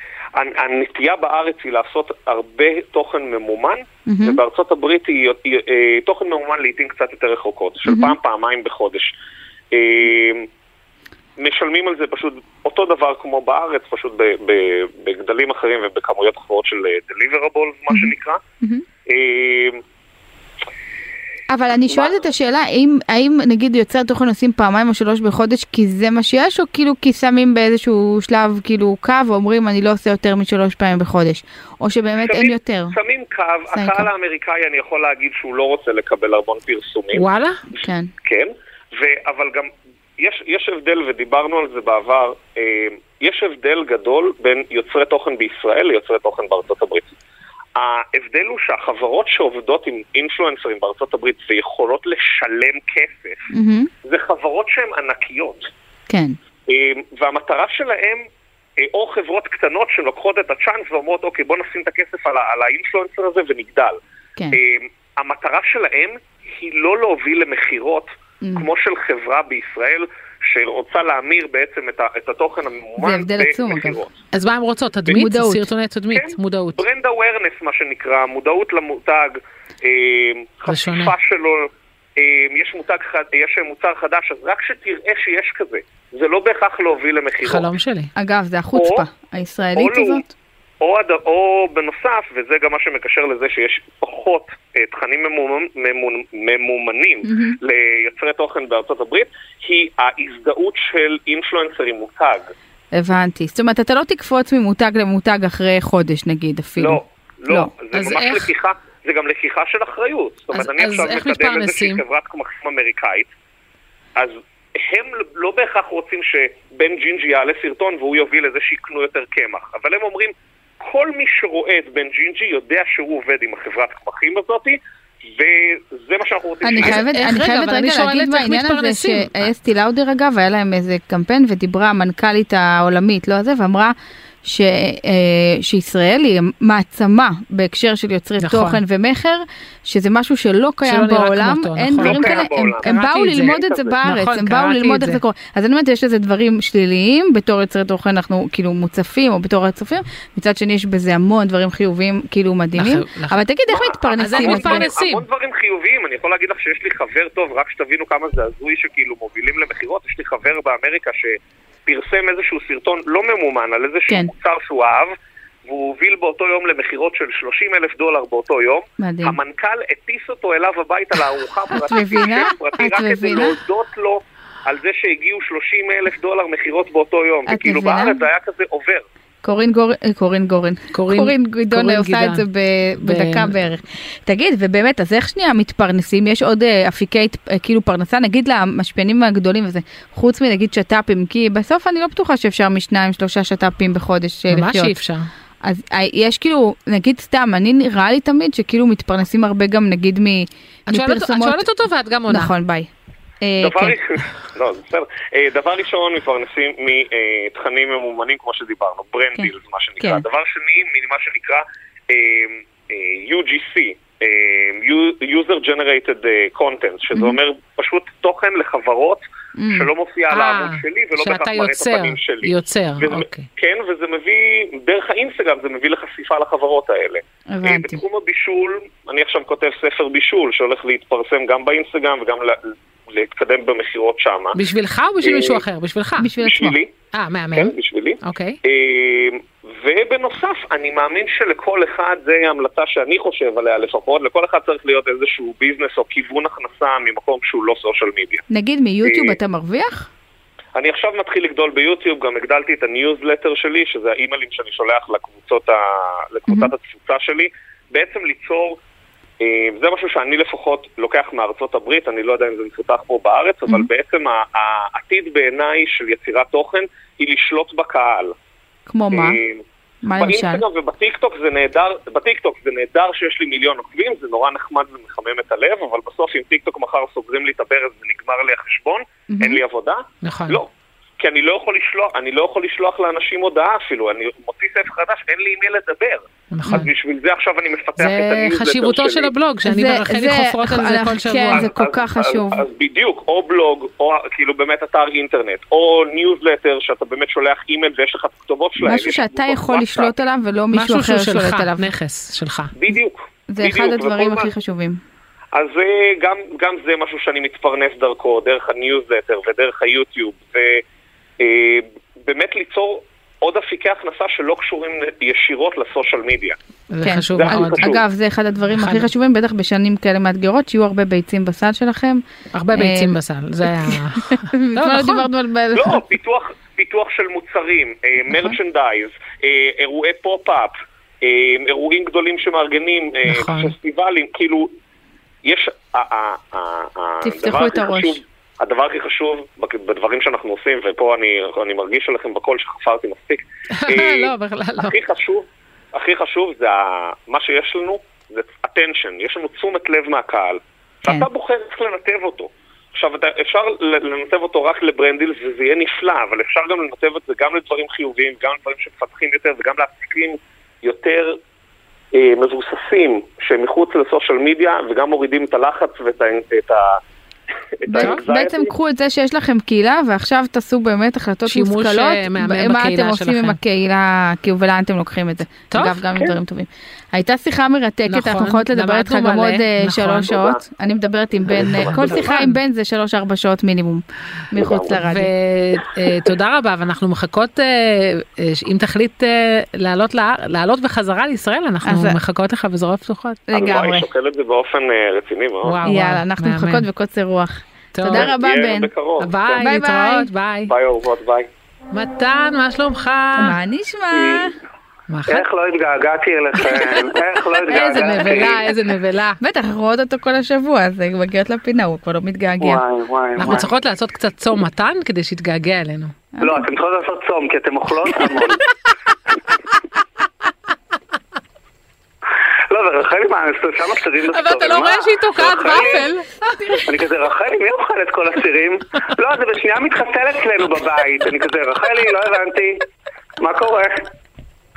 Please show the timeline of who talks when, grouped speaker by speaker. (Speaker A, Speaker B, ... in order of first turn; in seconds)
Speaker A: 0.3-9.1, 9.7-10.5, 11.4-18.4, 19.1-19.8, 32.2-37.2, 38.2-47.1, 47.8-53.5, 54.0-55.7, 56.7-58.2, 58.8-64.0, 64.5-74.2, 76.1-87.7, 88.7-89.0, 89.8-90.2, 90.8-102.5, 106.8-113.3, 114.2-124.8, 125.3-127.0, 142.0-143.9, 153.7-165.1, 165.7-179.0, 203.6-234.6, 235.2-235.6, 236.4-236.9, 237.5-248.4, 249.0-249.4, 250.7-258.8, 259.4-268.3, 269.1-269.6, 270.2-289.3, 291.5-300.1, 302.8-304.5, 305.5-310.8, 311.4-316.6, 317.4-318.0, 325.7-334.7, 335.4-361.4, 362.1-367.0, 367.8-368.7, 380.3-380.6, 381.6-382.3, 393.5-395.8, 398.1-399.4, 400.7-401.5
Speaker B: 4.1-4.4, 7.9-8.1, 21.5-33.0, 33.7-34.1, 37.8-38.1, 53.5-53.9, 56.1-56.4, 68.4-68.7, 73.0-74.0, 75.1-75.6, 88.2-90.3, 97.2-97.6, 102.9-107.7, 126.6-154.9, 169.0-169.4, 171.8-173.6, 177.5-178.2, 179.4-194.9, 195.6-201.7, 202.3-202.9, 203.4-203.9, 219.6-219.9, 227.5-228.0, 236.2-236.8, 248.5-250.1, 268.9-269.4, 270.0-270.6, 279.3-279.6, 289.6-292.6, 298.8-301.9, 303.5-305.0, 317.0-322.2, 322.7-326.0, 337.2-338.2, 367.9-385.3, 391.8-392.2, 393.5-394.1, 395.9-398.9, 399.5-400.3, 403.4-404.6, 407.9-408.6, 409.4-412.8, 416.4-416.6
Speaker C: 37.1-37.6, 74.3-76.8, 80.7-81.1, 87.4-88.1, 107.9-108.5, 110.5-112.0, 126.8-129.5, 138.4-138.8, 140.8-145.2, 152.8-153.4, 154.2-155.2, 180.9-182.4, 183.0-183.5, 194.5-195.2, 200.9-202.5, 220.3-223.5, 234.5-236.3, 237.1-238.6, 280.2-280.6, 286.5-286.9, 288.0-291.7, 300.7-302.7, 316.9-317.9, 318.7-319.1, 322.5-325.3, 333.3-333.7, 343.7-344.9, 371.5-373.6, 375.7-376.0, 378.1-380.4, 381.7-382.6, 384.9-393.4, 395.6-396.9, 397.9-398.3, 399.2-400.7, 401.9-403.6, 405.1-405.4, 406.6-409.4, 413.4-416.1, 424.3-426.8
Speaker D: 404.1-404.5, 405.3-408.7, 412.6-413.7, 416.4-418.6, 422.7-426.1, 426.9-432.9, 433.4-434.1